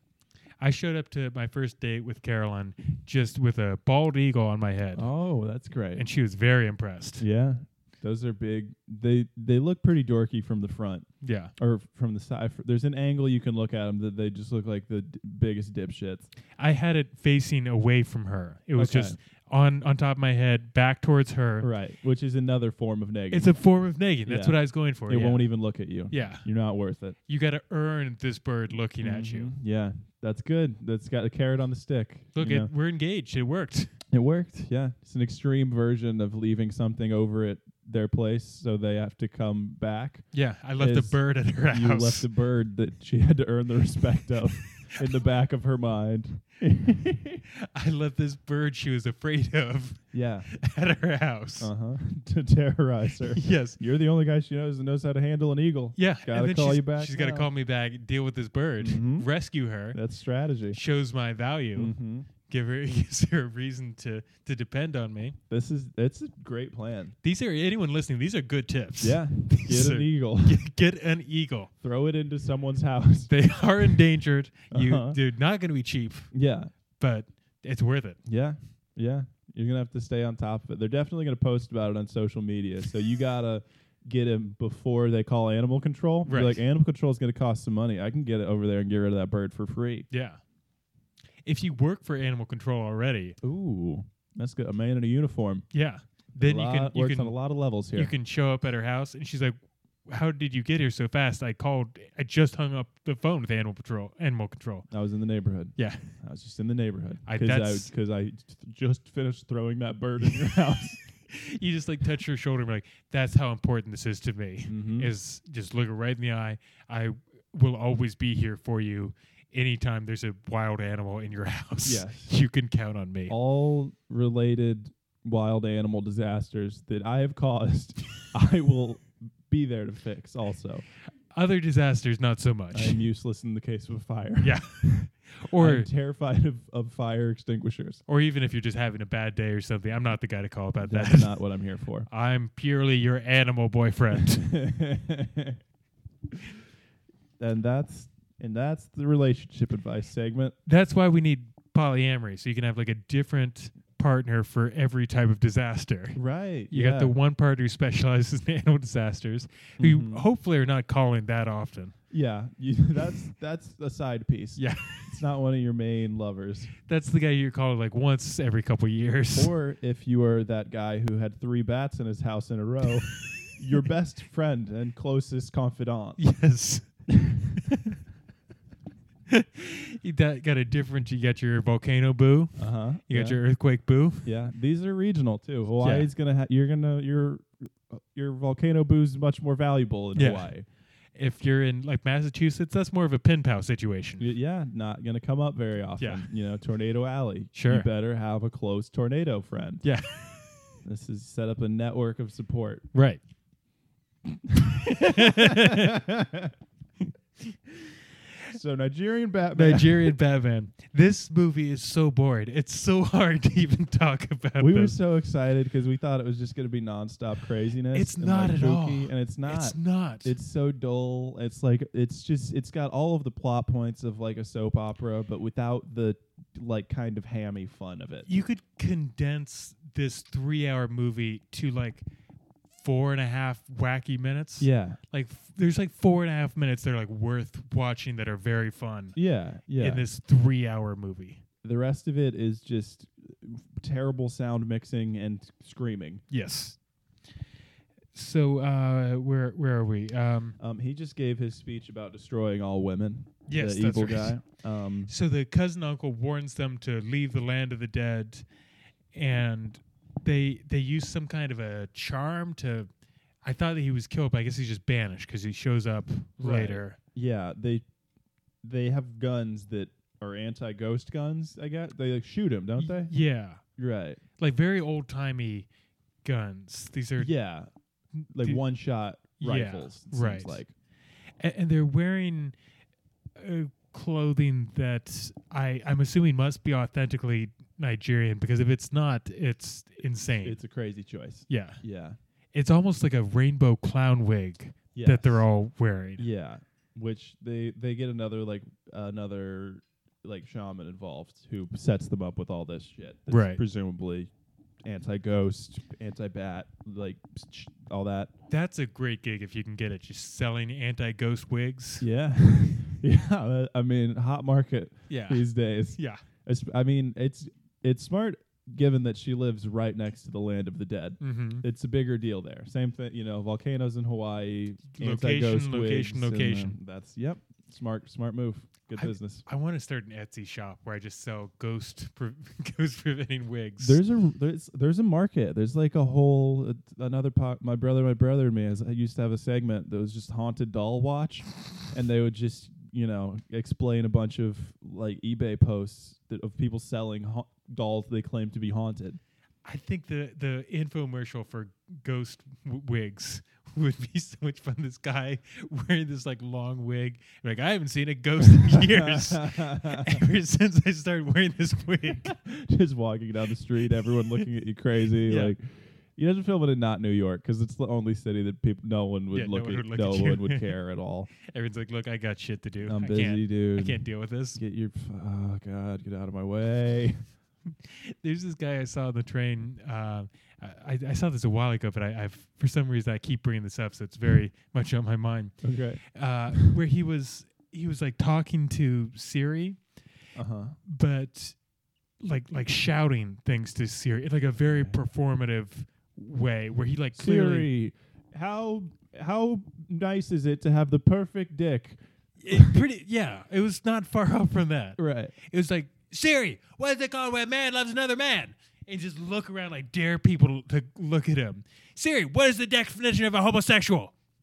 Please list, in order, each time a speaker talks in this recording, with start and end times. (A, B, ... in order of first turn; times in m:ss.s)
0:00.6-0:05.1 A
0:04.9-0:06.0 B
0:05.9-0:07.2 A
0:07.2-0:16.3 B
0:11.2-0:11.5 A
0:16.6-0:21.7 A
0:18.8-0:19.2 B
0:21.6-0:23.5 B
0:23.3-0:25.5 A
0:24.2-0:27.2 B
0:26.1-0:26.4 A
0:27.3-0:29.5 A
0:29.0-0:32.7 B
0:32.4-0:33.9 A
0:34.1-0:47.4 B
0:40.3-0:42.3 A
0:47.6-0:51.7 A
0:50.1-0:50.5 B
0:51.6-0:57.5 B
0:53.3-0:53.8 A
0:56.0-1:00.0 A
0:58.8-0:59.3 B
0:59.9-1:00.8 B
1:00.7-1:01.9 A
1:01.8-1:02.3 B
1:02.4-1:05.4 A
1:05.5-1:07.2 B
1:07.2-1:11.7 A
1:09.0-1:10.6 B
1:11.8-1:13.3 B
1:13.3-1:16.3 A
1:14.7-1:15.2 B
1:16.3-1:16.7 B
1:17.0-1:18.2 A
1:18.2-1:30.0 B
1:26.2-1:26.6 A
1:30.1-1:30.4 A
1:31.4-1:33.4 A
1:33.4-1:35.6 B
1:35.7-1:37.3 A
1:36.4-1:38.1 B
1:37.9-1:39.6 A
1:40.1-1:44.9 A
1:44.9-1:51.0 B
1:45.8-1:46.1 A
1:47.2-1:47.9 A
1:51.2-2:03.3 A
1:54.7-1:55.1 B
2:01.8-2:02.3 B
2:03.3-2:10.8 B
2:11.3-2:13.0 A
2:12.7-2:18.0 B
2:14.4-2:15.9 A
2:18.1-2:21.4 A
2:20.8-2:22.1 B
2:22.1-2:24.5 A
2:24.3-2:25.6 B
2:27.4-2:30.6 B
2:30.6-2:36.2 A
2:36.1-2:37.1 B
2:36.7-2:42.0 A
2:39.8-2:40.2 B
2:42.1-2:46.7 B
2:44.6-2:45.2 A
2:46.9-2:49.5 A
2:49.3-2:56.2 B
2:56.2-2:56.9 A
2:57.1-2:57.6 B
2:57.7-2:57.9 A
2:59.3-3:04.3 A
3:02.6-3:03.4 B
3:04.2-3:10.6 B
3:05.8-3:06.1 A
3:10.1-3:10.5 A
3:11.2-3:14.3 A
3:14.2-3:19.8 B
3:16.0-3:16.2 A
3:17.5-3:17.9 A
3:19.8-3:20.6 A
3:20.8-3:22.8 B
3:22.9-3:23.2 A
3:24.3-3:26.5 B
3:24.7-3:26.0 A
3:28.5-3:30.1 B
3:29.5-3:35.0 A
3:34.6-3:48.3 B
3:37.9-3:40.3 A
3:48.2-3:52.0 A
3:52.7-3:59.2 A
3:54.6-3:55.0 B
3:59.1-4:00.0 B
3:59.8-4:01.4 A
4:01.6-4:06.2 B
4:06.3-4:06.8 A
4:08.1-4:10.6 A
4:10.6-4:15.1 B
4:13.5-4:14.4 A
4:15.1-4:18.4 A
4:19.1-4:22.9 A
4:23.4-4:27.0 A
4:26.4-4:27.8 B
4:28.6-4:33.1 B
4:32.8-4:33.6 A
4:33.8-4:34.2 B
4:34.4-4:35.7 A
4:36.2-4:37.3 A
4:37.2-4:37.7 B
4:38.2-4:38.6 A
4:38.3-4:40.7 B
4:39.4-4:40.6 A
4:41.4-4:42.5 A
4:43.4-4:50.6 A
4:50.4-4:52.2 B
4:51.5-4:51.8 A
4:52.5-4:56.3 A
4:54.9-4:55.4 B
4:56.2-5:04.3 B
5:03.3-5:03.6 A
5:04.8-5:08.3 B
5:08.5-5:12.1 A
5:12.0-5:29.4 B
5:15.1-5:16.2 A
5:21.2-5:21.6 A
5:25.0-5:26.8 A
5:28.9-5:34.0 A
5:33.8-5:49.2 B
5:49.6-6:02.4 A
5:58.5-6:00.2 B
6:02.2-6:05.6 B
6:05.2-6:05.5 A
6:06.2-6:11.3 B
6:09.3-6:10.8 A
6:11.5-6:14.6 A
6:12.8-6:14.0 B
6:14.5-6:17.2 B
6:17.8-6:29.8 A
6:25.6-6:26.0 B
6:30.4-6:30.8 B
6:30.8-6:31.6 A
6:32.2-6:37.7 A
6:34.6-6:35.0 B
6:37.2-6:42.8 B
6:42.4-6:54.1 A
6:45.0-6:45.3 B